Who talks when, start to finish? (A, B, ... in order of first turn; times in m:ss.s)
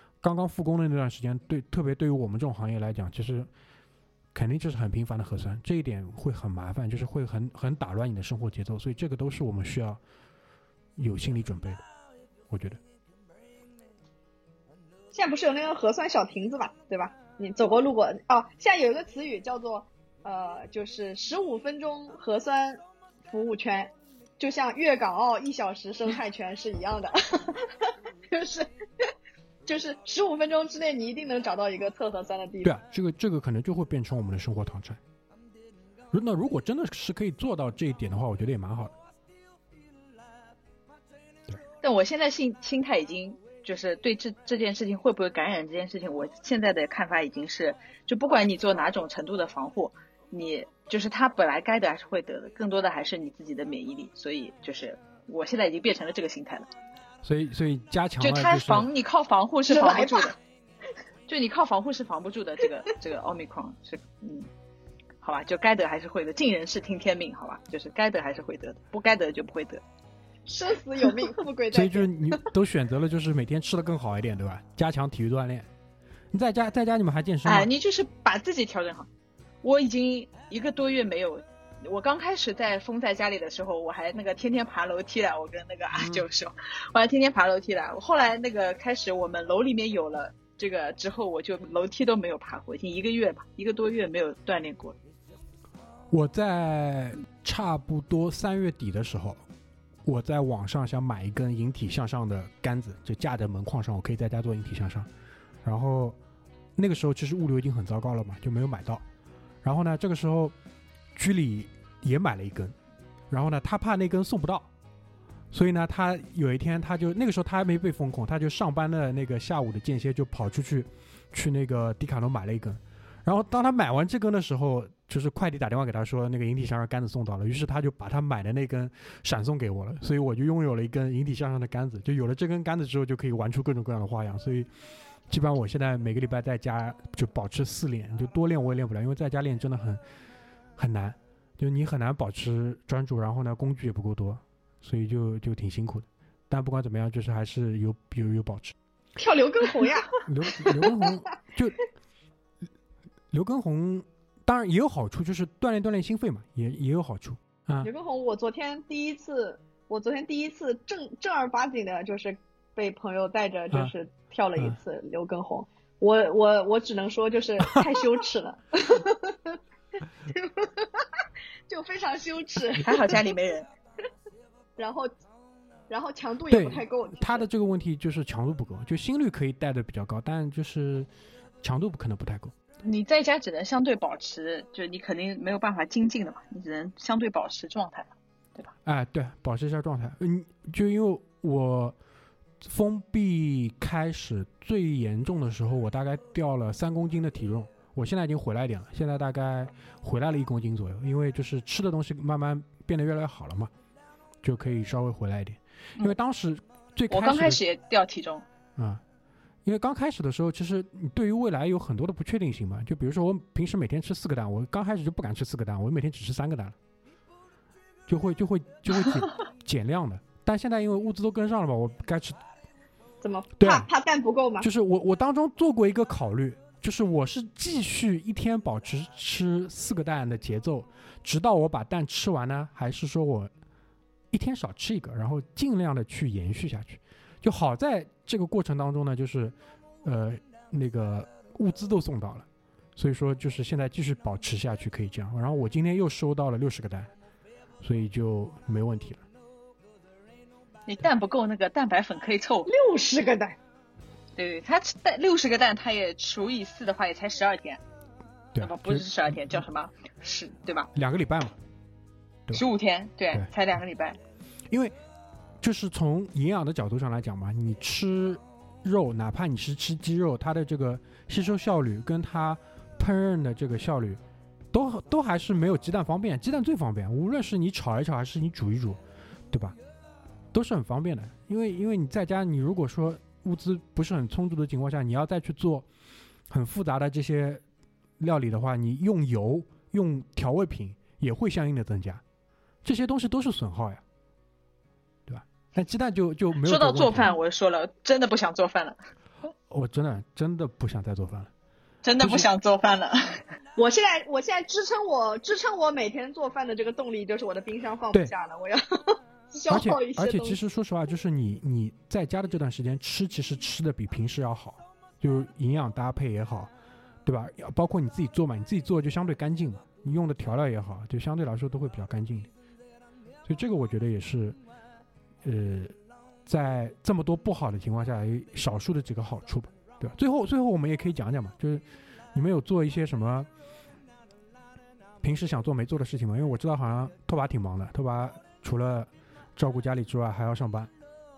0:00.2-0:03.5 A
0:04.3-0:10.0 A
0:11.0-0:11.8 A
0:12.5-0:12.8 A
0:15.1-0:28.7 B
0:29.6-0:32.7 B
0:32.6-0:35.0 A
0:36.1-0:38.9 A
0:41.8-0:56.7 C
0:57.2-0:58.9 A
0:58.2-1:00.4 C
0:59.7-1:00.3 B
1:01.3-1:04.5 C
1:05.2-1:09.8 C
1:10.5-1:12.4 B
1:11.7-1:15.7 A
1:16.3-1:17.7 A
1:17.4-1:19.1 C
1:19.6-1:35.0 C
1:25.9-1:26.2 A
1:36.1-1:39.4 A
1:40.0-1:45.1 A
1:45.6-1:46.2 A
1:46.8-1:49.0 A
1:49.6-1:50.5 A
1:51.1-1:52.7 A
1:53.3-1:54.7 A
1:55.5-2:14.7 A
2:15.3-2:20.0 A
2:20.8-2:28.7 A
2:29.2-2:31.0 B
2:30.2-2:31.8 A
2:33.3-2:37.9 A
2:37.8-2:49.6 B
2:50.3-2:51.1 B
2:51.7-2:53.2 B
2:52.8-2:53.7 C
2:54.8-2:55.1 B
2:55.9-2:57.4 B
2:56.5-3:01.1 A
3:01.6-3:02.5 A
3:02.8-3:08.7 C
3:08.8-3:11.9 A
3:12.6-3:23.7 A
3:24.4-3:27.6 A
3:27.1-3:28.4 C
3:28.8-3:29.0 A
3:29.6-3:36.8 A
3:38.1-3:42.4 A
3:43.2-3:44.7 B
3:43.6-3:43.9 A
3:44.6-3:53.5 A
3:54.3-4:07.1 A
4:07.8-4:09.2 A
4:10.9-4:12.7 C
4:12.7-4:13.6 B
4:14.4-4:17.8 C
4:18.5-4:19.6 A
4:18.6-4:20.9 C
4:20.9-4:21.6 A
4:22.5-4:24.2 C
4:24.7-4:25.0 A
4:25.6-4:34.2 A
4:34.7-4:39.0 A
4:39.5-4:39.8 A
4:40.5-4:45.8 A
4:46.5-4:47.6 A
4:48.2-4:52.2 A
4:52.8-4:54.0 A
4:55.3-4:57.3 A
4:56.6-4:59.0 C
4:59.7-5:01.5 A
5:02.0-5:03.4 C
5:02.2-5:02.5 A
5:03.8-5:10.6 B
5:09.7-5:16.7 A
5:17.2-5:22.5 A
5:23.4-5:24.6 A
5:25.4-5:25.9 A
5:26.4-5:33.5 A
5:35.2-5:40.9 A